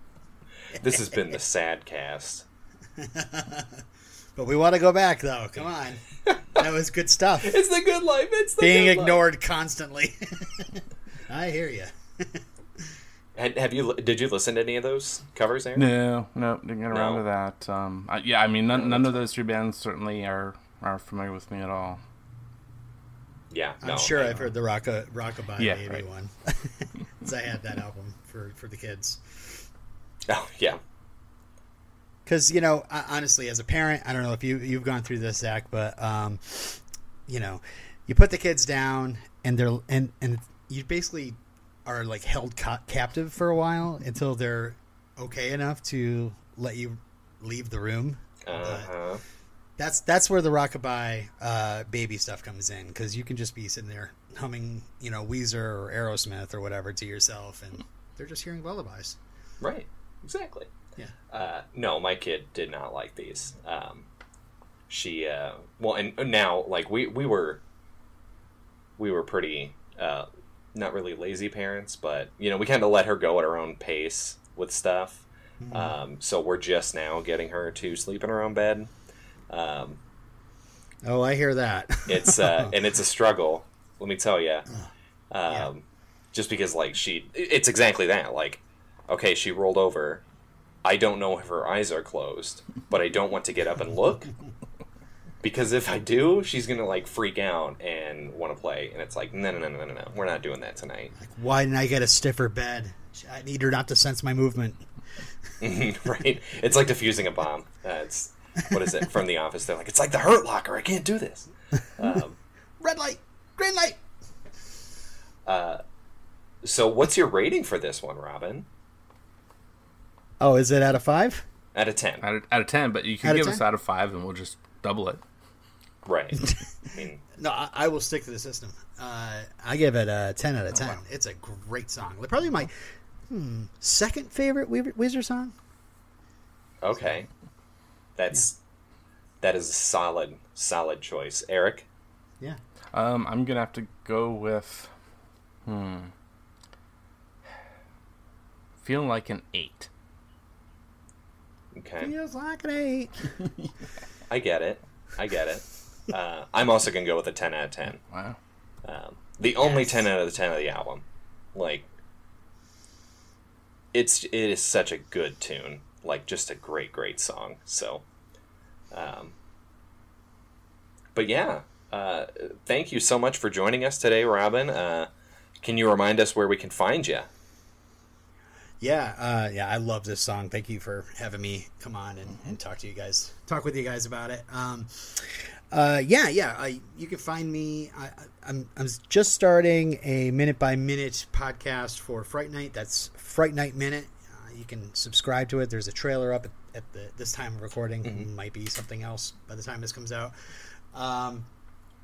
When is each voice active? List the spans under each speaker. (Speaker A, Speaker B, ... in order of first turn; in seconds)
Speaker A: 0.7-2.5, 7.4-9.2, 13.4-15.9, 16.9-17.2, 18.7-19.2, 23.5-24.5, 30.3-30.8, 48.5-49.2, 59.6-60.7, 61.3-64.1, 64.9-67.6, 69.0-78.9, 79.5-80.0, 82.1-84.7, 85.3-90.2, 90.8-94.3, 95.4-101.1, 105.6-112.4, 115.5-115.8, 116.6-118.7, 121.7-122.3, 126.0-127.2, 136.8-137.3, 138.2-138.6, 139.4-141.9, 151.7-152.1, 154.3-158.0, 158.8-161.0, 161.6-161.9, 163.9-168.0, 168.9-169.3, 171.2-175.1, 175.6-177.3
Speaker B: 3.0-3.8, 4.4-7.6, 8.6-12.4, 23.8-29.7, 32.3-48.9, 49.8-59.2, 75.6-76.0, 81.0-82.7, 101.1-104.8, 112.8-114.0, 120.4-121.4, 123.2-123.6, 127.4-135.5, 152.0-153.3, 159.7-159.9, 178.8-200.3, 200.9-201.5
Speaker C: 15.8-22.0, 25.6-26.0, 122.2-125.2, 142.9-144.9, 145.7-146.1, 148.8-149.9, 158.1-158.4